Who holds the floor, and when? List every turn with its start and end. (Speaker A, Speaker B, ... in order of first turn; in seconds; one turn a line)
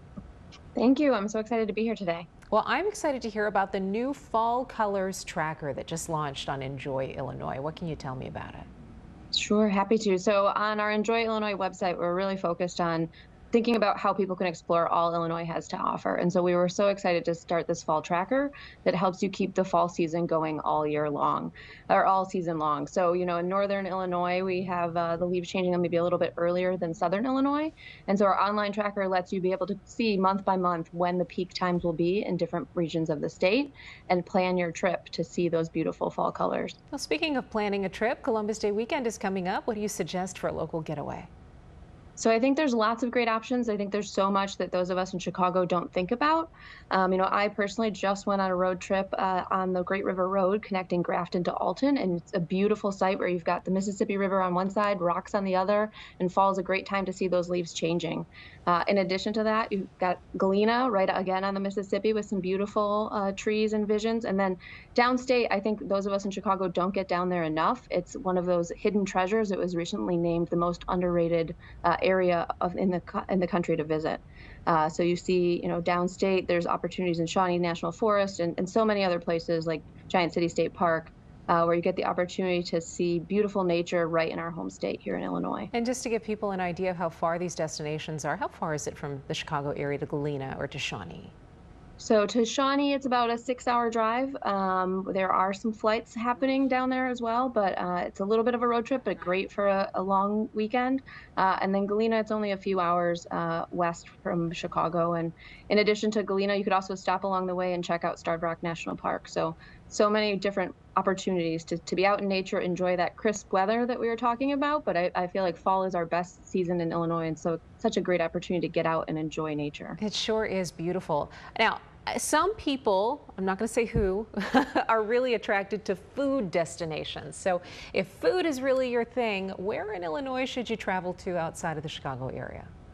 Speaker A: 0.8-2.3
Speaker B: 2.5-8.7
Speaker A: 9.3-36.8
Speaker B: 36.9-41.3
Speaker A: 42.2-85.7
Speaker B: 85.7-91.3
Speaker A: 92.0-120.0
Speaker B: 120.0-132.7